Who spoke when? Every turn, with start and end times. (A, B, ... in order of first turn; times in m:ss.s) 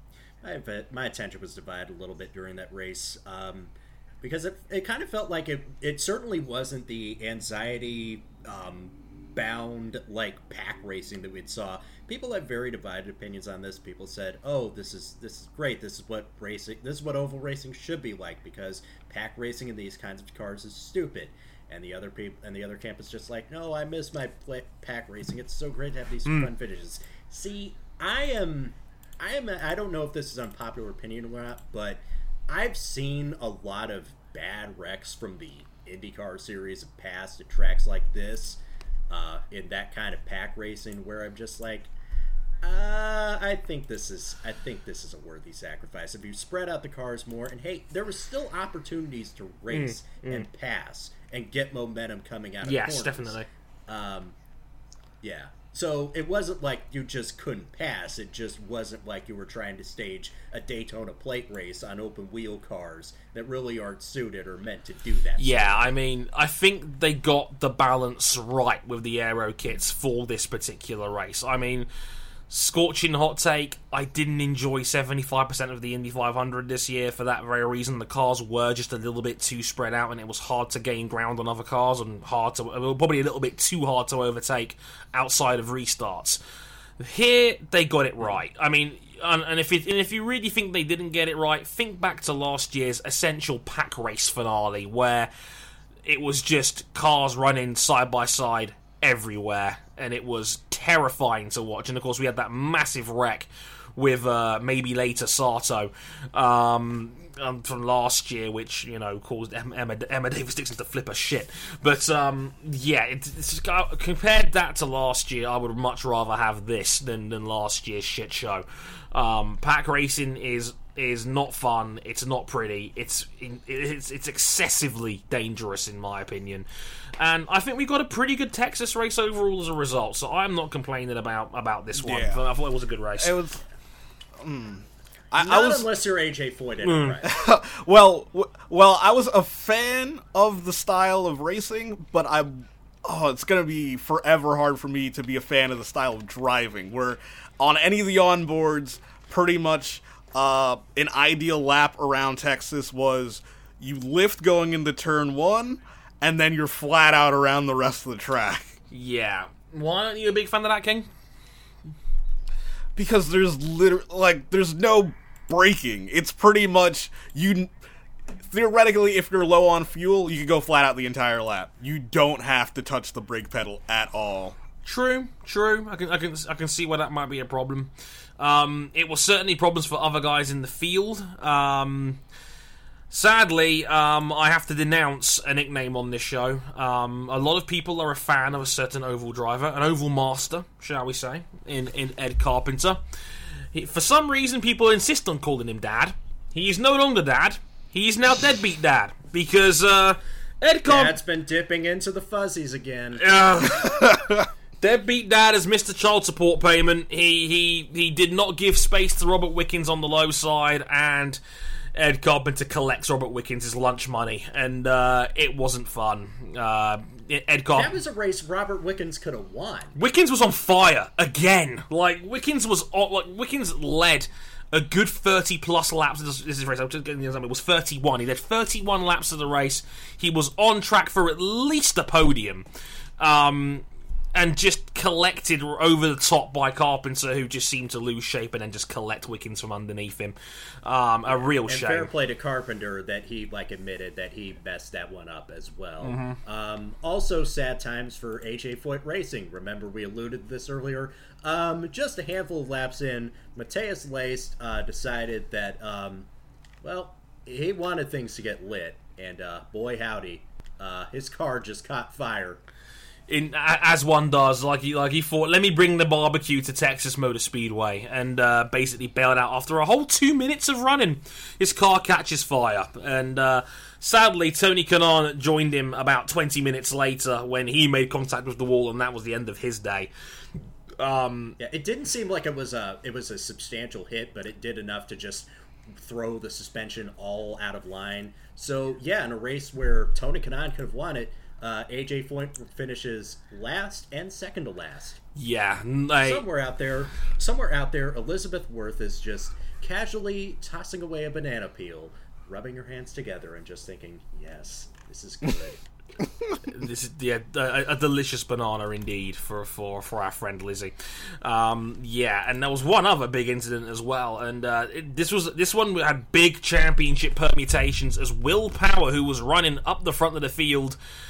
0:00.4-0:41.9 A
0:42.6-0:54.4 A
0:49.7-0:50.5 B
0:52.6-0:53.5 B
0:55.2-1:05.7 A
1:05.4-1:11.9 B
1:12.5-1:26.4 B
1:27.0-1:35.3 B
1:36.1-2:06.7 B
2:07.2-2:13.4 B
2:12.0-2:12.4 C
2:13.2-2:13.6 C
2:14.4-2:15.9 C
2:15.4-2:17.3 A
2:16.8-2:17.2 B
2:17.2-2:38.8 C
2:38.9-2:41.1 B
2:43.0-2:47.7 C
2:48.5-2:54.6 C
2:54.8-3:02.2 B
3:03.1-3:13.0 B
3:13.7-3:21.2 B
3:20.9-3:23.2 A
3:23.2-3:24.2 B
3:24.1-3:24.4 C
3:24.8-3:31.4 B
3:32.0-3:38.0 B
3:37.8-3:39.9 A
3:40.0-3:52.7 B
3:53.2-4:02.1 B
4:01.3-4:16.3 A
4:06.0-4:06.4 B
4:16.8-4:22.6 A
4:23.3-4:40.1 B
4:41.0-4:41.6 B
4:41.6-4:55.2 A
4:55.4-4:56.4 B
4:56.2-5:05.8 A
5:06.6-5:21.0 B